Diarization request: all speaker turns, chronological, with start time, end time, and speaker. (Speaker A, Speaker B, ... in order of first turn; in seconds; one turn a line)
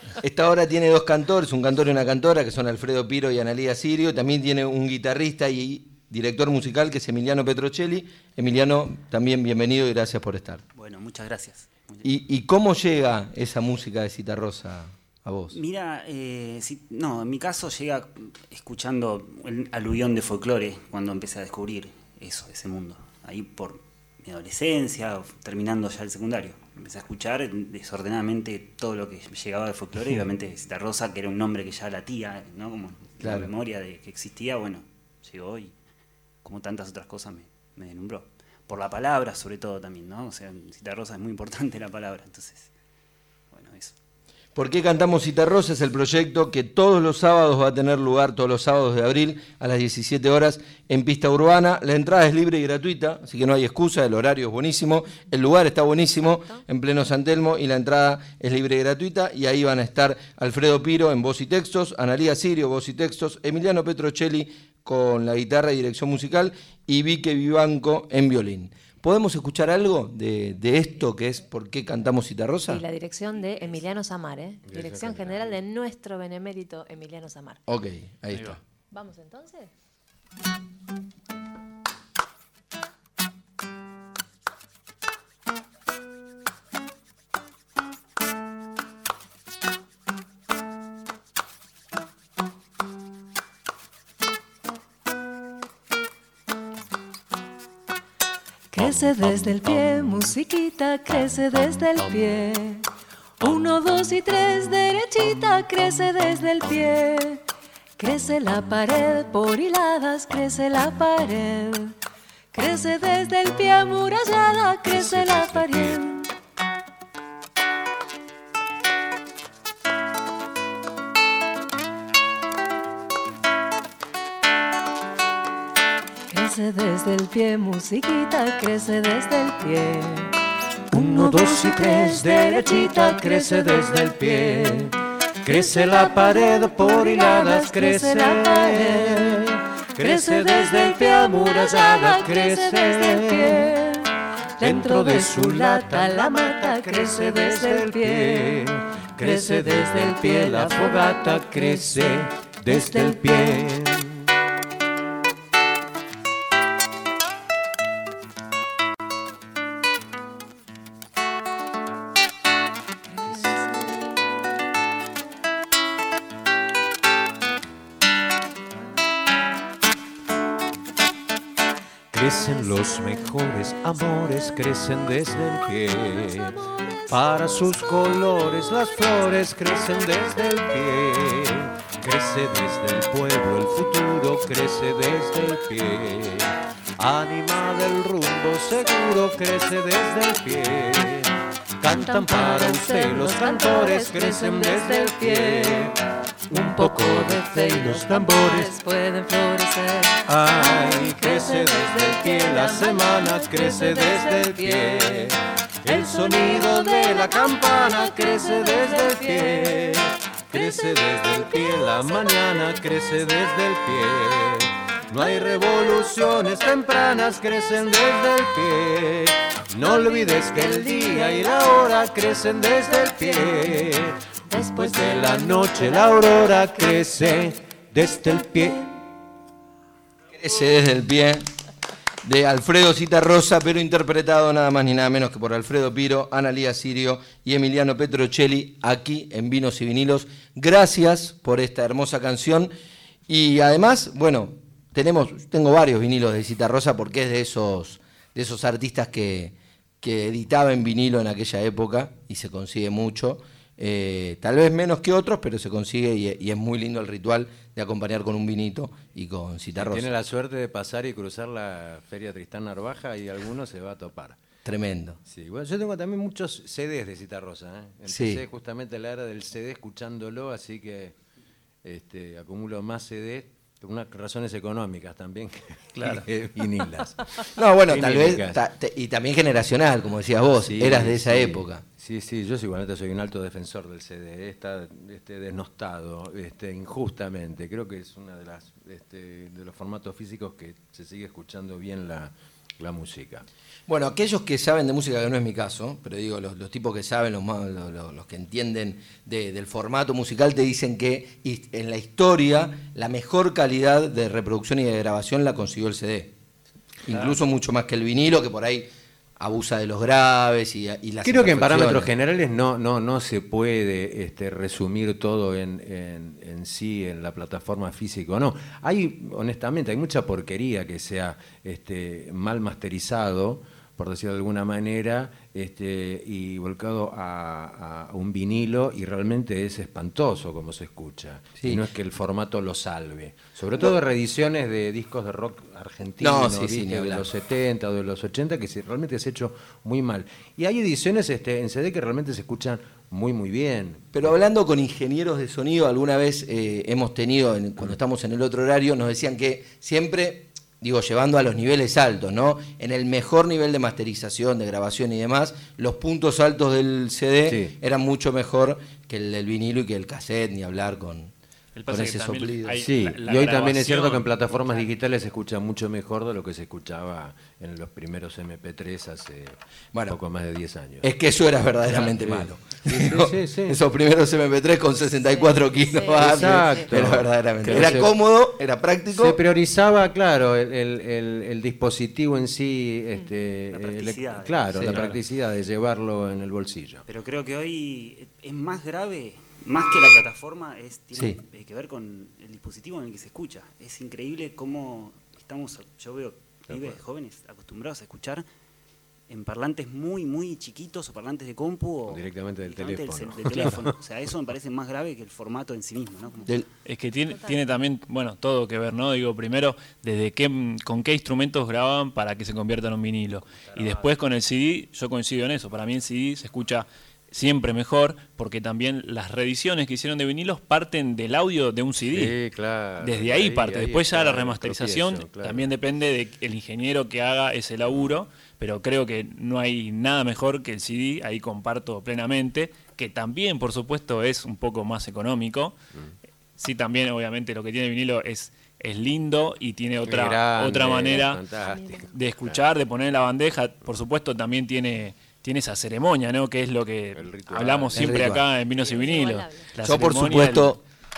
Speaker A: 0.2-10.6
Speaker B: 10.7-12.1
Speaker A: 12.0-15.5
Speaker B: 15.5-35.8
Speaker A: 33.2-33.5
Speaker B: 36.4-42.7
Speaker B: 43.5-43.9
Speaker A: 44.5-72.8
Speaker C: 72.7-77.6
Speaker D: 74.7-75.4
Speaker A: 77.7-78.6
Speaker E: 78.3-78.5
Speaker C: 78.9-79.7
Speaker C: 98.7-102.8
Speaker D: 98.8-100.3
Speaker D: 102.0-102.3
Speaker C: 103.4-107.4
Speaker C: 108.0-112.0
Speaker C: 112.5-116.3
Speaker D: 114.9-116.0
Speaker C: 126.3-130.3
Speaker C: 130.9-134.8
Speaker D: 130.9-143.7
Speaker C: 135.5-153.7
Speaker D: 144.6-154.4
Speaker D: 172.1-196.0
Speaker C: 191.9-195.9
Speaker D: 196.5-198.7
Speaker C: 196.5-211.8
Speaker D: 200.2-228.9
Speaker C: 219.9-221.6
Speaker C: 224.5-227.2
Speaker A: 230.3-231.4
Speaker A: 232.2-242.7
Speaker A: 243.3-260.1
Speaker D: 259.7-264.4
Speaker A: 264.6-265.2
Speaker D: 265.2-271.1
Speaker A: 268.1-268.4
Speaker D: 271.8-278.6
Speaker E: 276.0-276.2
Speaker A: 277.4-281.8
Speaker D: 280.6-293.4
Speaker A: 293.9-306.3
Speaker A: 307.0-312.1
Speaker D: 311.2-344.3
Speaker A: 336.2-337.3
Speaker A: 344.1-361.3
Speaker D: 357.4-357.7
Speaker E: 361.7-364.2
Speaker A: 361.9-362.8
Speaker D: 362.8-371.1
Speaker A: 371.0-379.4
Speaker D: 371.9-373.8
Speaker C: 375.2-376.9
Speaker D: 376.1-378.1
Speaker D: 379.1-387.0
Speaker B: 383.7-385.0
Speaker A: 384.7-385.0
Speaker B: 387.1-398.4
Speaker D: 396.7-397.0
Speaker B: 399.3-406.5
Speaker D: 402.1-403.9
Speaker E: 406.8-422.4
Speaker D: 422.1-425.7
Speaker E: 423.0-435.8
Speaker E: 436.6-441.4
Speaker D: 440.0-442.7
Speaker C: 441.1-442.1
Speaker E: 442.1-450.8
Speaker D: 447.1-448.5
Speaker A: 447.9-448.4
Speaker C: 448.7-449.7
Speaker A: 449.8-450.8